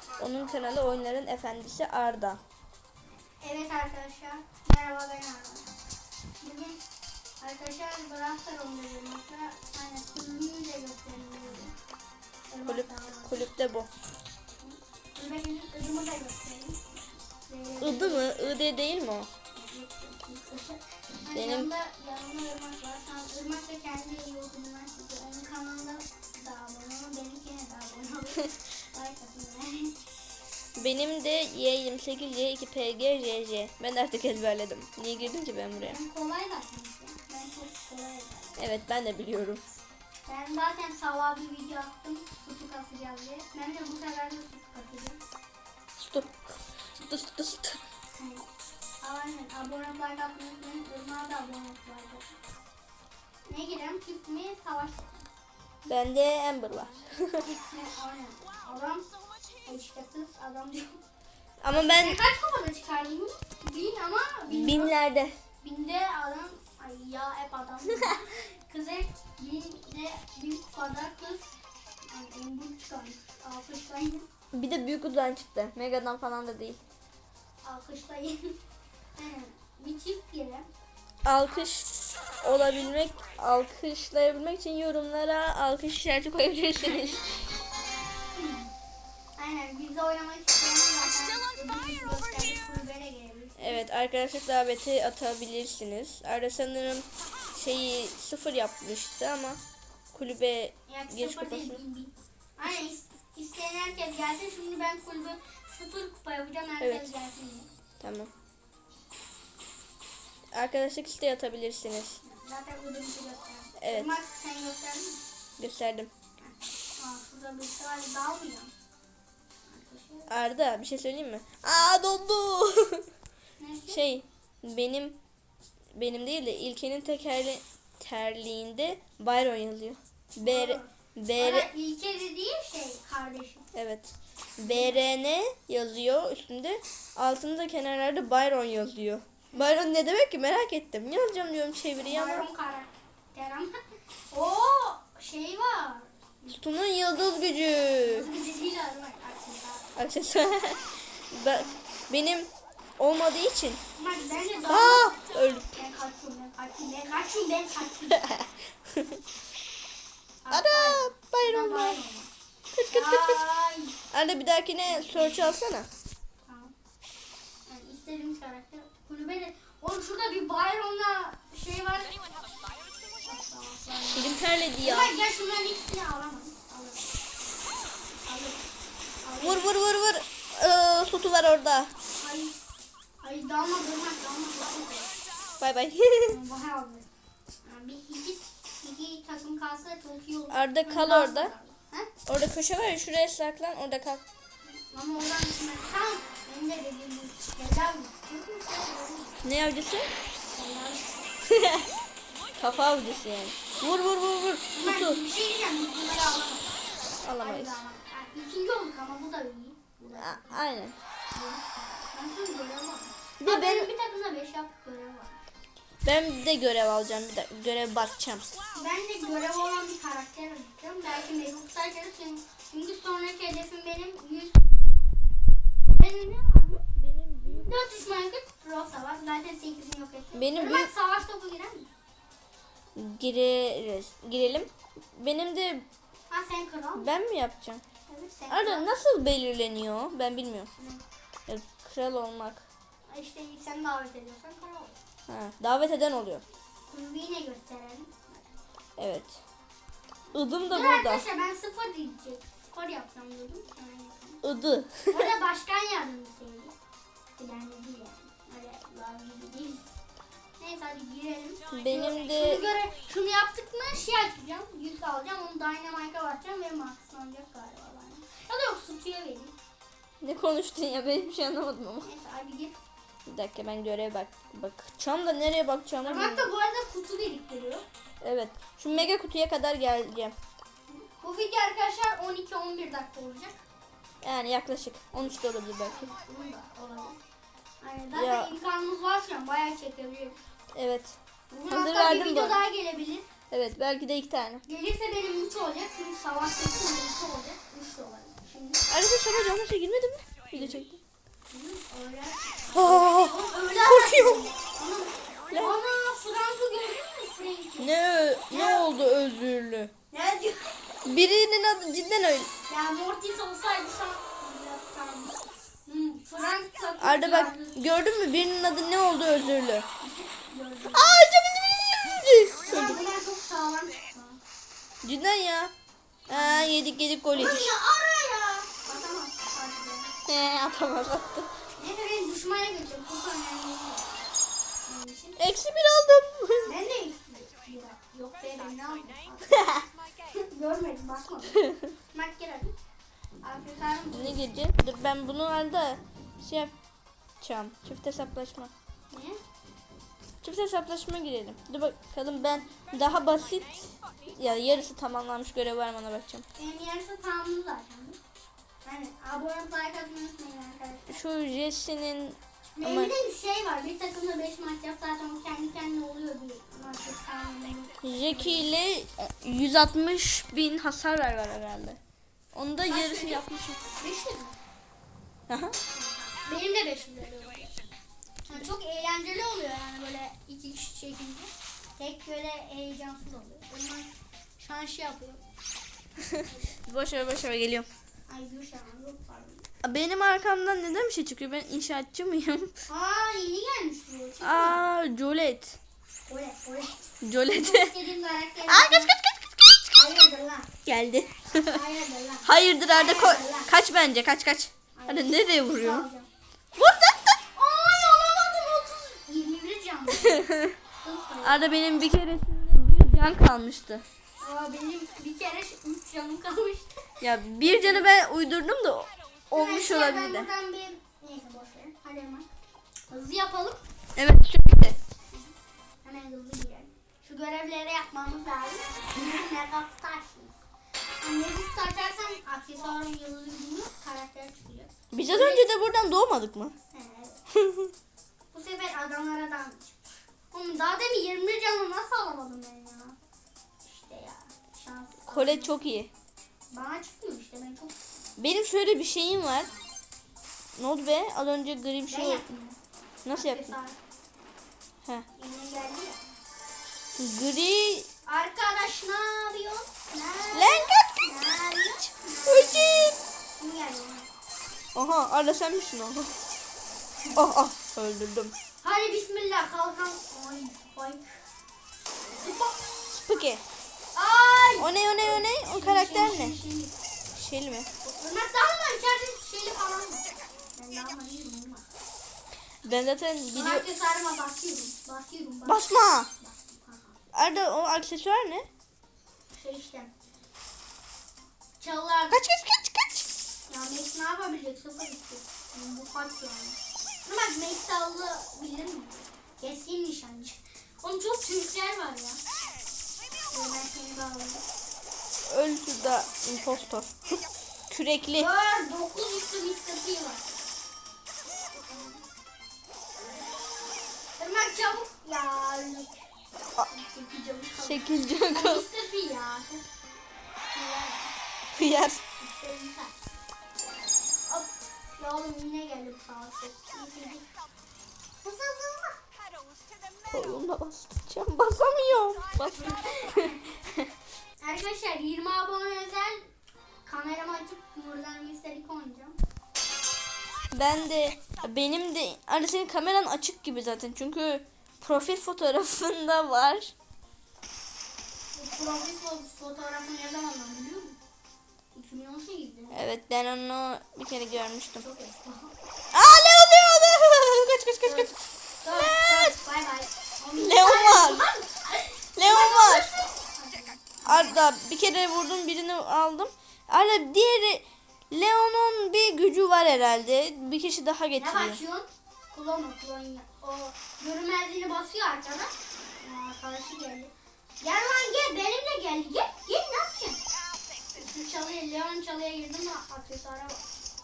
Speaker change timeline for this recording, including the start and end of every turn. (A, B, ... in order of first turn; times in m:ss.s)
0:00.2-0:02.4 A
0:03.4-0:05.7 B
0:06.4-0:06.8 B
0:07.4-0:11.7 B
0:12.5-0:13.5 B
0:12.6-0:13.9 A
0:14.6-0:18.5 B
0:17.8-0:19.3 A
0:19.5-0:30.0 B
0:21.3-0:21.7 A
0:30.7-0:36.0 A
0:35.8-0:38.6 B
0:38.6-0:39.6 A
0:40.2-0:45.2 B
0:46.0-0:47.8 A
0:48.1-0:48.4 B
0:49.0-0:52.4 B
0:53.5-0:55.3 B
0:55.9-0:57.4 A
0:57.4-0:59.0 B
0:59.6-1:01.0 B
1:01.6-1:02.2 A
1:01.9-1:04.9 B
1:04.5-1:05.4 A
1:05.6-1:11.5 B
1:12.0-1:14.2 B
1:14.5-1:16.8 A
1:17.6-1:18.6 B
1:19.2-1:20.6 B
1:21.2-1:21.9 A
1:22.4-1:27.2 A
1:26.8-1:27.2 B
1:28.3-1:28.7 B
1:29.4-1:33.8 B
1:33.6-1:39.6 A
1:40.1-1:41.8 A
1:40.9-1:47.7 B
1:46.8-1:47.1 A
1:48.0-1:48.3 A
1:50.5-1:52.2 A
1:52.2-1:55.2 B
1:53.8-1:54.1 A
1:55.6-1:56.1 A
1:56.4-1:58.7 B
1:59.7-2:00.3 B
2:00.3-2:03.0 A
2:03.6-2:04.0 B
2:03.9-2:05.2 A
2:05.9-2:11.7 A
2:10.4-2:13.7 B
2:13.7-2:22.5 A
2:14.6-2:15.0 B
2:22.0-2:23.8 B
2:24.3-2:26.6 B
2:26.5-2:28.2 A
2:28.0-2:29.8 B
2:30.0-2:32.5 A
2:31.5-2:31.8 B
2:33.0-2:33.8 A
2:34.0-2:35.2 B
2:34.7-2:35.7 A
2:35.7-2:38.3 B
2:38.2-2:39.2 A
2:40.4-2:42.3 B
2:40.5-2:42.0 A
2:42.7-2:43.4 A
2:42.9-2:43.9 B
2:44.1-2:45.9 A
2:44.9-2:45.6 B
2:46.5-2:46.7 B
2:47.7-2:52.3 B
2:53.2-2:57.2 B
2:54.1-2:55.1 A
2:58.2-2:58.6 B
2:59.2-2:59.7 B
2:59.4-3:01.9 A
3:02.2-3:02.5 B
3:03.2-3:05.1 B
3:05.6-3:06.4 A
3:06.3-3:07.0 B
3:07.6-3:12.1 B
3:10.5-3:11.5 A
3:12.3-3:14.2 A
3:14.6-3:19.4 B
3:19.4-3:20.1 A
3:20.5-3:21.2 B
3:21.5-3:21.9 A
3:22.6-3:25.2 A
3:24.7-3:26.7 B
3:27.2-3:27.8 A
3:27.4-3:30.6 B
3:30.2-3:31.0 A
3:31.3-3:35.4 B
3:33.4-3:33.9 A
3:36.0-3:38.5 A
3:38.7-3:45.0 B
3:45.9-3:46.8 B
3:47.0-3:47.8 A
3:47.4-3:51.9 B
3:50.4-3:50.9 A
3:52.9-3:55.8 A
3:56.3-3:57.0 B
3:56.9-3:57.8 A
3:58.1-3:58.9 B
3:58.5-4:00.7 A
4:01.5-4:02.6 A
4:03.1-4:05.0 B
4:05.3-4:06.4 A
4:06.9-4:08.5 B
4:09.0-4:09.4 A
4:10.3-4:11.2 A
4:10.6-4:14.4 B
4:14.4-4:15.3 A
4:15.1-4:16.7 B
4:17.4-4:19.9 B
4:20.6-4:29.5 B
4:21.7-4:22.6 A
4:30.2-4:32.1 A
4:32.0-4:32.8 B
4:33.3-4:36.5 A
4:36.0-4:37.8 B
4:38.2-4:40.3 A
4:40.9-4:43.6 B
4:44.2-4:46.1 A
4:45.8-4:47.2 B
4:47.8-4:50.4 B
4:48.1-4:48.5 A
4:50.7-4:51.2 A
4:51.5-4:53.2 B
4:51.7-4:52.6 A
4:53.5-4:54.6 A
4:54.6-4:58.8 B
4:58.9-5:01.0 A
5:01.5-5:07.9 B
5:02.7-5:04.4 A
5:05.5-5:05.8 A
5:07.8-5:09.9 A
5:08.5-5:09.0 B
5:10.1-5:10.7 B
5:11.0-5:12.5 A
5:12.7-5:15.3 B
5:15.8-5:17.8 B
5:17.0-5:19.8 A
5:20.0-5:21.2 B
5:20.9-5:23.0 A
5:22.6-5:24.4 B
5:25.0-5:25.7 A
5:26.3-5:26.7 B
5:26.3-5:27.7 A
5:27.3-5:30.1 B
5:30.3-5:31.5 A
5:31.8-5:34.2 B
5:34.8-5:35.4 B
5:35.4-5:36.8 A
5:36.6-5:39.7 B
5:39.5-5:39.8 A
5:40.3-5:42.7 B
5:43.4-5:44.4 B
5:44.1-5:46.7 A
5:47.4-5:48.7 A
5:49.1-5:49.4 B
5:50.4-5:56.4 A
5:56.6-5:58.2 B
5:58.8-6:01.2 B
6:01.1-6:03.1 A
6:02.7-6:08.7 B
6:08.0-6:12.0 A
6:12.5-6:13.8 A
6:12.9-6:14.6 B
6:15.5-6:15.8 A
6:15.9-6:17.8 B
6:18.5-6:25.4 B
6:26.4-6:26.8 B
6:26.9-6:27.9 A
6:28.3-6:29.7 B
6:29.8-6:32.7 A
6:32.9-6:34.9 B
6:34.4-6:35.8 A
6:36.3-6:39.1 B
6:37.2-6:37.9 A
6:38.7-6:39.5 A
6:39.9-6:40.7 B
6:40.8-6:41.8 A
6:41.6-6:43.7 B
6:42.4-6:46.0 A
6:44.9-6:46.3 B
6:46.8-6:47.3 A
6:47.5-6:51.6 B
6:50.2-6:50.8 A
6:51.4-6:54.0 A
6:54.4-6:58.1 B
6:57.2-7:00.5 A
6:59.5-7:02.4 B
7:03.1-7:03.8 B
7:04.2-7:05.0 A
7:05.3-7:10.6 B
7:11.2-7:15.6 B
7:15.1-7:16.7 A
7:16.9-7:17.4 B
7:17.6-7:17.9 A
7:18.5-7:23.2 B
7:23.8-7:25.7 B
7:25.3-7:26.1 A
7:26.7-7:28.0 B
7:28.4-7:29.7 A
7:30.8-7:32.4 A
7:32.1-7:32.8 B
7:33.2-7:33.7 A
7:33.3-7:34.0 B
7:35.4-7:36.2 B
7:37.2-7:38.1 A
7:38.2-7:44.3 B
7:40.5-7:41.2 A
7:42.5-7:43.2 A
7:44.9-7:46.3 A
7:47.3-7:48.5 A
7:48.8-7:51.4 B
7:52.4-7:52.8 B
7:53.1-7:53.6 A
7:54.1-7:57.0 B
7:54.8-7:56.6 A
7:57.3-7:57.9 A
7:58.0-8:01.9 B
8:02.8-8:03.8 A
8:03.5-8:05.9 B
8:05.6-8:06.3 A
8:06.4-8:07.2 B
8:07.3-8:08.7 A
8:09.5-8:10.1 B
8:11.8-8:12.4 B
8:12.3-8:13.3 A
8:13.7-8:22.4 B
8:23.5-8:24.6 B
8:25.5-8:28.5 A
8:28.3-8:30.5 B
8:31.8-8:32.2 B
8:34.4-8:36.3 B
8:36.8-8:39.8 B
8:37.8-8:38.8 A
8:40.7-8:41.3 B
8:41.7-8:42.2 A
8:42.4-8:43.2 B
8:44.5-8:47.4 B
8:48.4-8:49.2 B
8:50.3-8:54.1 A
8:52.6-8:53.7 B
8:54.6-8:56.5 B
8:57.0-8:59.4 B
9:00.7-9:06.9 A
9:08.5-9:11.2 B
9:11.9-9:13.0 B
9:12.9-9:15.0 A
9:15.0-9:15.7 B
9:16.1-9:18.3 A
9:18.0-9:24.6 B
9:18.9-9:19.5 A
9:20.6-9:21.5 A
9:22.4-9:23.1 A
9:24.2-9:31.8 A
9:31.4-9:40.4 B
9:41.1-9:43.8 B